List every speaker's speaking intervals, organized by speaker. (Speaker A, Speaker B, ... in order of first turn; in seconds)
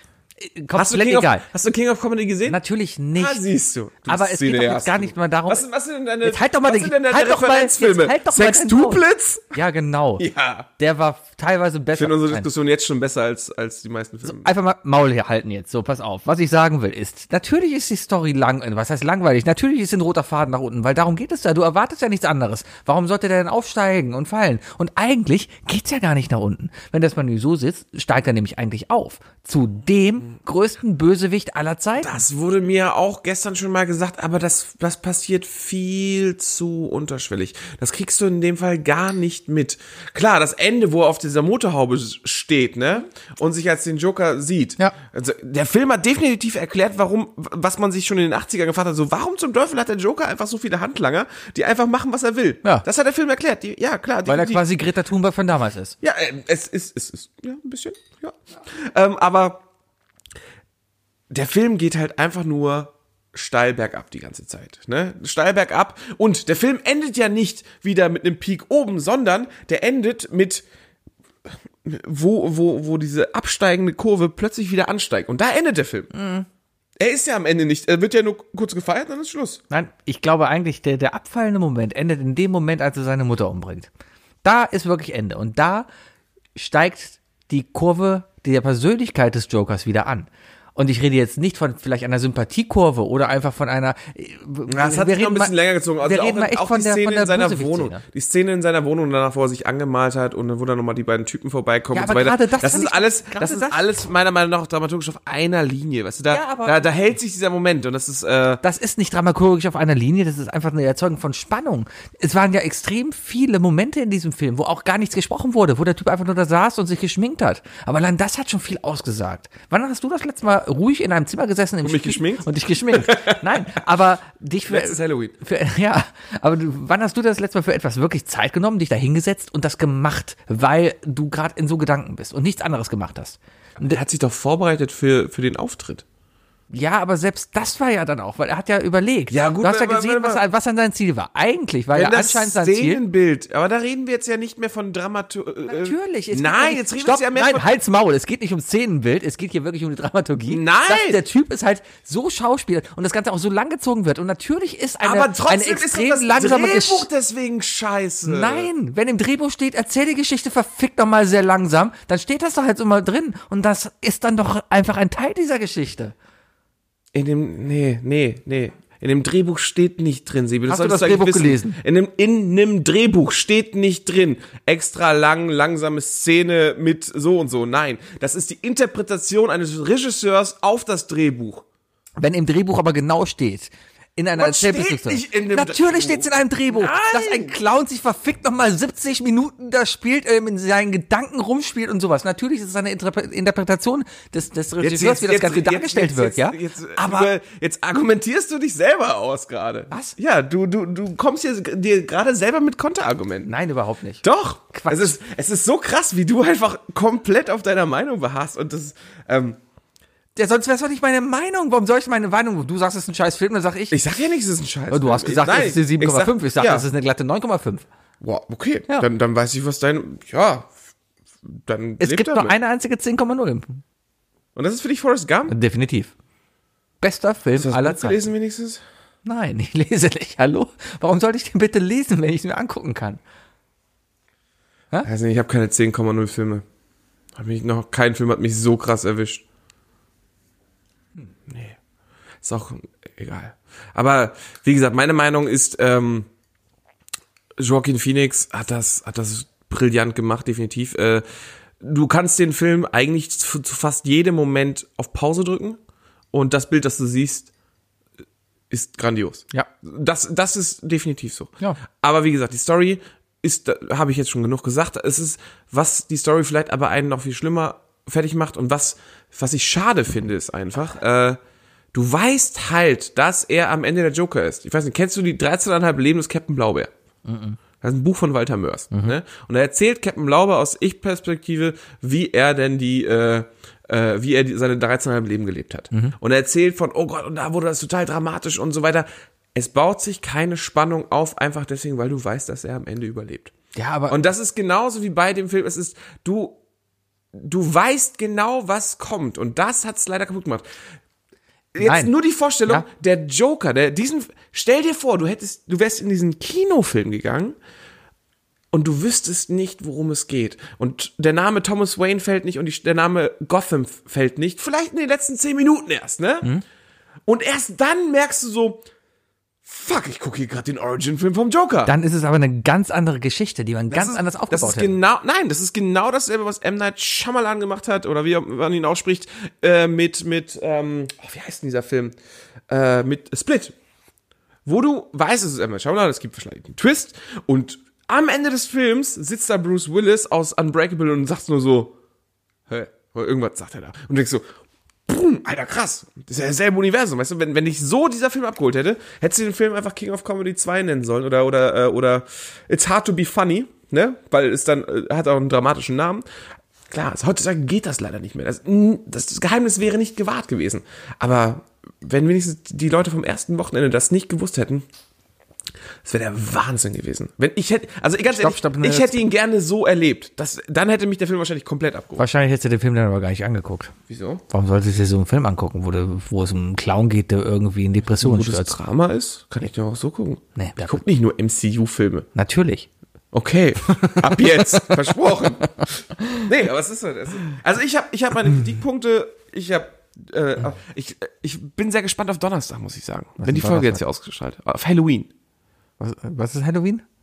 Speaker A: 0.4-1.4, 2.5-3.4, 4.1-5.6, 6.2-9.0, 9.5-10.2, 10.8-12.5, 14.2-32.1, 54.2-55.9, 76.1-76.5, 79.7-83.9, 84.4-85.9, 86.5-98.0, 101.9-103.8, 106.3-106.8, 108.6-134.0, 136.7-143.0, 145.7-157.1, 158.2-166.1, 170.7-171.8, 182.2-197.3, 203.4-205.1, 210.3-214.0, 214.9-217.8, 222.0-223.8, 225.5-226.1, 227.0-228.2, 229.2-233.2, 277.2-277.6, 278.9-279.2, 293.7-294.2, 301.8-302.1, 321.9-324.9, 368.3-369.2, 372.2-373.9, 374.5-378.7, 380.6-381.0, 382.3-382.9, 383.9-385.0, 385.8-386.4, 393.4-394.0, 396.0-397.0
Speaker B: 0.7-2.6, 3.1-9.5, 10.2-10.7, 11.9-14.5, 32.0-54.6, 56.0-59.6, 61.3-70.6, 71.8-76.1, 77.0-79.6, 94.7-108.6, 121.8-123.6, 124.7-125.3, 133.8-136.0, 139.3-140.4, 141.9-147.8, 150.5-151.2, 155.0-158.7, 167.1-181.6, 184.3-187.5, 194.8-203.5, 204.2-209.6, 213.9-216.8, 218.2-220.7, 221.5-222.5, 224.5-225.5, 227.6-228.8, 235.0-236.6, 237.3-239.4, 241.5-241.8, 242.4-246.3, 247.6-251.2, 251.8-255.8, 256.3-257.5, 258.7-271.4, 271.9-276.9, 277.8-293.5, 294.1-296.6, 297.3-300.6, 301.7-307.6, 308.7-316.5, 317.2-318.8, 319.6-321.9, 323.9-332.1, 332.7-333.7, 334.6-341.9, 342.7-344.4, 345.1-356.2, 356.9-364.8, 366.0-372.2, 374.1-374.4, 378.2-382.3, 383.3-395.3